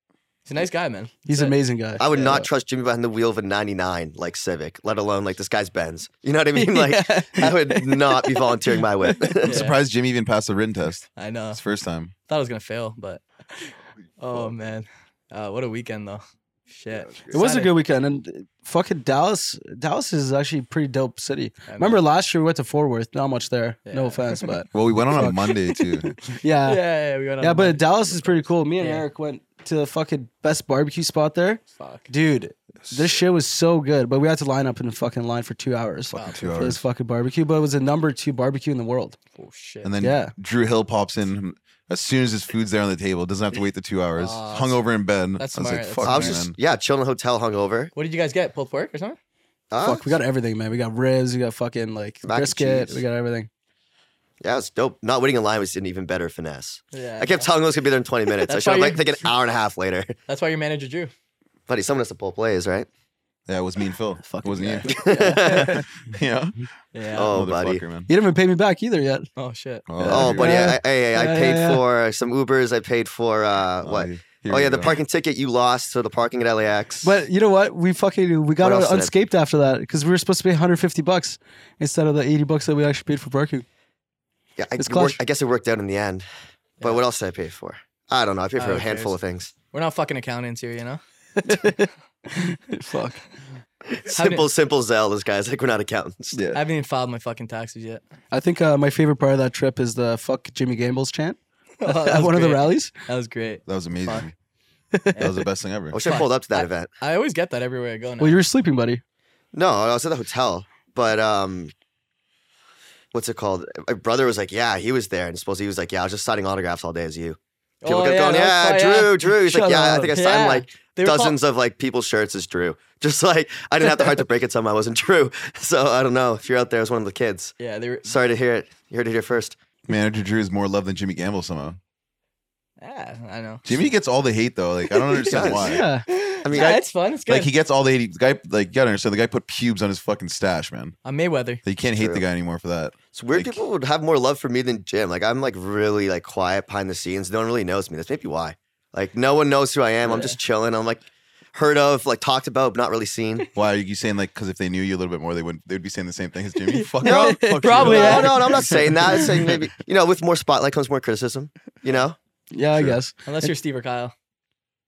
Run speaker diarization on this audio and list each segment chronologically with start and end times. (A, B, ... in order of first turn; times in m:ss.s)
0:00.5-0:01.6 A
0:01.3-0:02.5 B
0:02.0-0:09.6 C
0:02.1-0:02.4 A
0:06.6-0:09.4 B
0:09.4-0:12.1 D
0:09.4-0:09.8 A
0:11.2-0:11.6 A
0:12.3-0:17.7 A
0:14.2-0:14.6 D
0:16.9-0:17.4 D
0:17.3-0:26.8 B
0:21.7-0:22.0 A
0:23.9-0:24.6 A
0:24.7-0:26.1 D
0:26.6-0:29.1 A
0:27.4-0:39.2 B
0:31.8-0:32.1 A
0:32.8-0:33.2 D
0:36.1-0:36.5 A
0:36.1-0:36.8 D
0:39.4-0:39.9 A
0:39.8-0:46.6 D
0:40.0-0:40.3 B
0:44.2-0:44.8 A
0:45.4-0:46.4 A
0:46.0-0:47.9 C
0:48.0-0:49.2 A
0:49.7-0:50.2 C
0:49.8-0:53.5 B
0:52.2-0:53.0 C
0:54.4-1:00.2 C
0:56.9-0:57.5 A
0:58.5-0:59.2 A
1:00.3-1:01.1 A
1:01.7-1:02.9 C
1:03.5-1:06.7 D
1:04.3-1:05.8 B
1:04.8-1:05.8 C
1:06.9-1:07.3 A
1:07.1-1:07.8 C
1:07.3-1:08.1 D
1:08.1-1:09.3 B
1:09.4-1:10.1 A
1:09.9-1:10.7 D
1:10.0-1:11.8 B
1:10.1-1:17.1 C
1:13.8-1:15.0 D
1:17.0-1:23.7 B
1:18.6-1:19.1 C
1:24.6-1:26.3 C
1:24.8-1:25.2 B
1:26.8-1:29.5 C
1:28.6-1:29.2 A
1:29.7-1:31.0 A
1:31.4-1:33.2 B
1:33.9-1:36.4 C
1:34.1-1:34.5 A
1:36.3-1:36.6 D
1:36.5-1:38.0 A
1:38.3-1:42.9 B
1:41.8-1:44.3 A
1:43.7-1:44.3 D
1:45.1-1:45.4 A
1:45.2-1:46.0 D
1:45.9-1:46.9 C
1:46.0-1:48.4 A
1:48.2-1:49.0 B
1:49.5-1:51.7 C
1:53.1-2:07.5 C
1:57.8-1:59.3 A
1:59.4-2:00.1 B
2:00.1-2:01.4 A
2:07.6-2:08.2 A
2:08.0-2:09.6 C
2:09.9-2:11.8 D
2:12.8-2:13.6 A
2:13.6-2:15.8 D
2:14.9-2:15.6 A
2:15.3-2:15.8 C
2:15.6-2:16.1 B
2:16.1-2:17.5 A
2:16.4-2:16.8 C
2:17.3-2:21.0 D
2:21.0-2:21.6 A
2:21.6-2:23.6 D
2:21.9-2:22.2 C
2:23.1-2:33.5 C
2:30.1-2:30.4 A
2:33.6-2:39.5 D
2:36.6-2:39.2 A
2:37.0-2:37.8 B
2:37.0-2:42.2 C
2:42.5-2:43.5 B
2:43.2-2:44.1 A